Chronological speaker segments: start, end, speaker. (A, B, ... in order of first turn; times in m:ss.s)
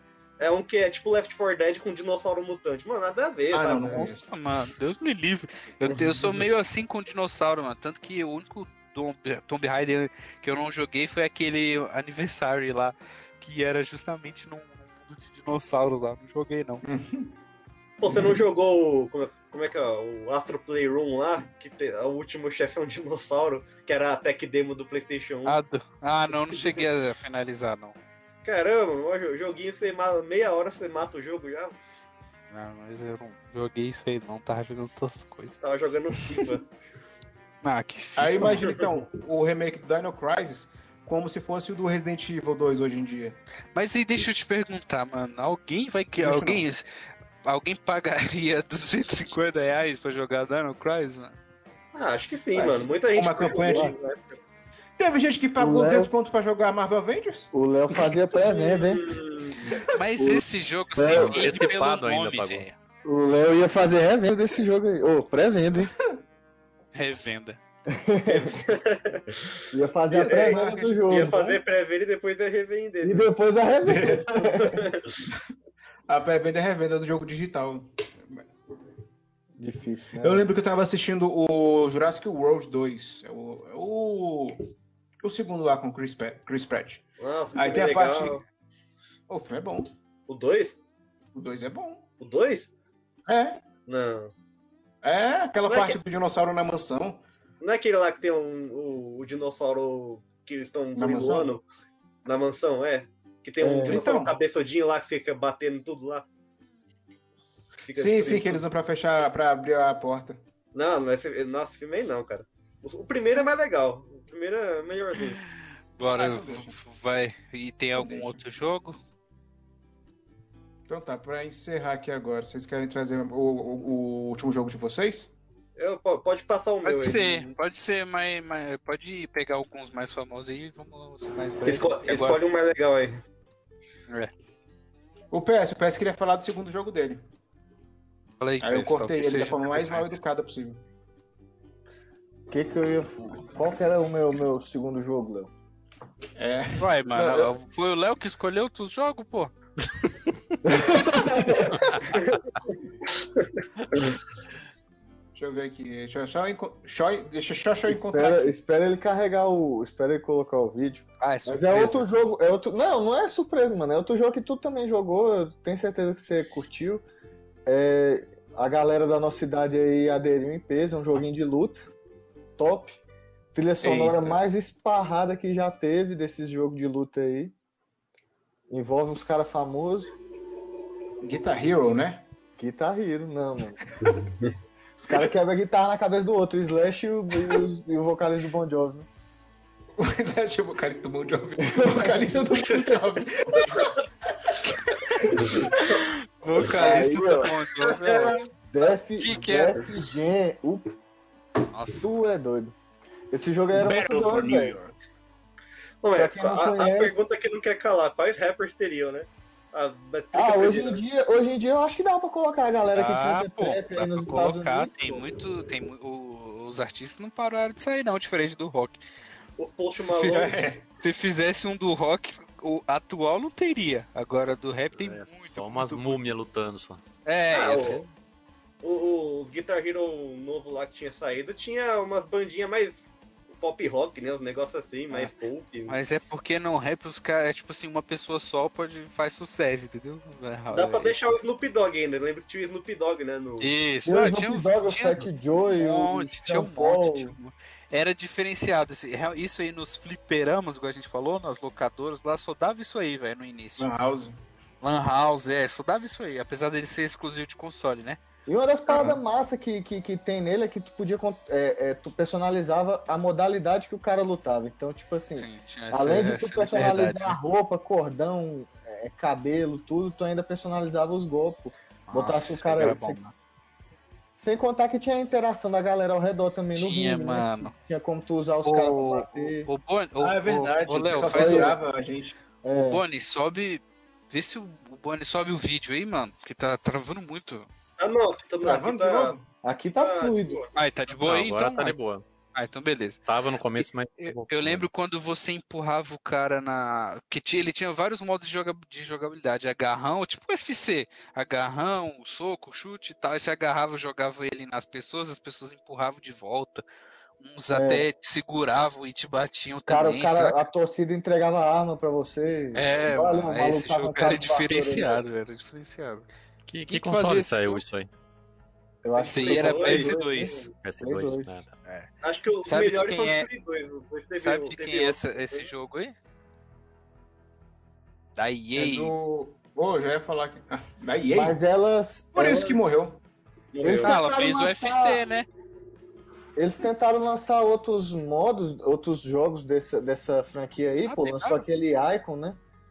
0:00.4-0:04.1 A
0:03.5-0:04.3 B
0:03.9-0:16.8 C
0:05.9-0:06.4 B
0:16.8-0:17.4 B
0:18.0-0:25.6 A
0:18.1-0:18.4 B
0:25.4-0:28.0 C
0:26.5-0:26.8 A
0:28.4-0:31.8 A
0:32.5-0:35.6 C
0:35.6-0:36.7 A
0:37.6-0:38.8 C
0:38.2-0:43.4 B
0:38.5-0:38.8 A
0:43.7-0:46.8 C
0:46.2-0:46.6 B
0:47.4-0:51.4 C
0:51.9-0:54.4 A
0:52.6-0:52.8 D
0:53.1-0:53.9 B
0:53.7-0:53.9 D
0:55.0-0:57.5 B
0:55.6-0:56.1 D
0:57.5-0:59.1 D
0:58.5-0:59.6 A
0:59.8-1:00.4 D
0:59.9-1:02.7 C
1:01.0-1:01.5 D
1:01.1-1:02.6 E
1:03.0-1:05.9 D
1:06.9-1:07.6 C
1:07.9-1:08.6 D
1:08.3-1:13.3 A
1:09.7-1:11.6 D
1:10.1-1:11.6 B
1:13.0-1:14.9 D
1:13.8-1:14.3 B
1:14.4-1:15.3 A
1:16.1-1:18.4 B
1:19.6-1:20.4 D
1:20.2-1:24.6 B
1:25.2-1:27.0 B
1:27.2-1:28.4 A
1:27.5-1:28.4 B
1:29.3-1:29.9 B
1:30.3-1:30.8 A
1:31.3-1:32.0 B
1:32.2-1:32.7 A
1:33.3-1:33.6 B
1:33.8-1:34.3 A
1:35.0-1:37.2 B
1:35.6-1:36.0 A
1:37.6-1:41.6 A
1:40.9-1:41.5 B
1:42.2-1:46.3 A
1:43.6-1:44.0 D
1:43.8-1:44.4 B
1:47.8-1:48.6 A
1:47.9-1:50.4 B
1:50.7-1:55.4 A
1:56.0-1:59.0 C
1:56.1-1:56.8 B
1:58.0-1:58.4 B
2:00.9-2:05.3 B
2:05.8-2:07.5 A
2:06.8-2:12.4 C
2:11.6-2:13.2 A
2:15.3-2:17.2 B
2:18.4-2:20.1 C
2:18.6-2:20.8 B
2:22.5-2:25.5 D
2:26.4-2:27.5 B
2:26.8-2:29.5 C
2:30.6-2:32.0 D
2:30.9-2:31.7 B
2:32.1-2:32.5 A
2:33.4-2:34.2 A
2:35.3-2:38.6 B
2:37.9-2:47.0 D
2:41.2-2:42.1 C
2:47.6-2:51.9 D
2:52.6-2:53.0 D
2:53.5-2:57.5 D
2:53.8-2:54.4 B
2:58.7-3:00.1 D
3:01.2-3:02.2 B
3:02.6-3:03.8 D
3:05.0-3:09.1 D
3:10.0-3:15.8 B
3:11.6-3:12.4 D
3:12.7-3:13.0 A
3:15.5-3:15.9 A
3:15.8-3:18.4 C
3:16.6-3:17.5 D
3:17.9-3:18.5 A
3:18.6-3:21.0 D
3:19.2-3:19.9 C
3:21.7-3:22.1 C
3:22.0-3:22.7 D
3:23.3-3:24.8 D
3:23.7-3:25.0 B
3:26.0-3:31.0 A
3:26.1-3:27.2 D
3:30.3-3:35.3 D
3:32.9-3:39.0 C
3:39.6-3:40.5 A
3:40.0-3:40.9 B
3:41.0-3:46.3 C
3:45.0-3:47.0 E
3:47.2-3:48.0 C
3:47.5-3:48.0 A
3:47.7-3:48.0 E
3:48.8-3:56.0 A
3:55.9-4:01.2 C
4:00.7-4:03.7 A
4:03.6-4:13.9 C
4:04.0-4:07.4 D
4:13.8-4:14.4 B
4:14.8-4:18.2 C
4:18.5-4:33.2 D
4:25.4-4:27.4 C
4:32.1-4:33.3 C
4:34.3-4:39.7 D
4:36.7-4:37.7 C
4:38.6-4:41.7 C
4:40.2-4:42.4 B
4:41.2-4:41.8 D
4:42.6-4:43.0 D
4:42.7-4:47.7 C
4:48.0-4:49.4 A
4:48.6-4:49.5 B
4:49.6-4:50.6 D
4:50.0-4:50.7 A
4:50.7-4:52.0 C
4:51.2-4:52.2 E
4:52.5-5:06.8 C
4:53.3-4:54.8 E
5:07.4-5:10.7 C
5:07.7-5:08.1 D
5:09.9-5:15.2 D
5:12.7-5:16.3 C
5:16.6-5:18.1 E
5:16.8-5:17.8 C
5:19.0-5:21.5 D
5:19.1-5:20.7 A
5:19.2-5:20.7 C
5:20.8-5:21.7 E
5:21.8-5:22.1 C
5:22.2-5:25.7 A
5:22.6-5:23.5 C
5:24.4-5:26.1 C
5:28.4-5:29.2 C
5:28.8-5:31.6 B
5:31.3-5:32.8 D
5:32.3-5:33.2 B
5:33.7-5:34.2 A
5:33.8-5:35.2 D
5:34.0-5:35.4 C
5:36.6-5:42.6 D
5:41.0-5:41.6 C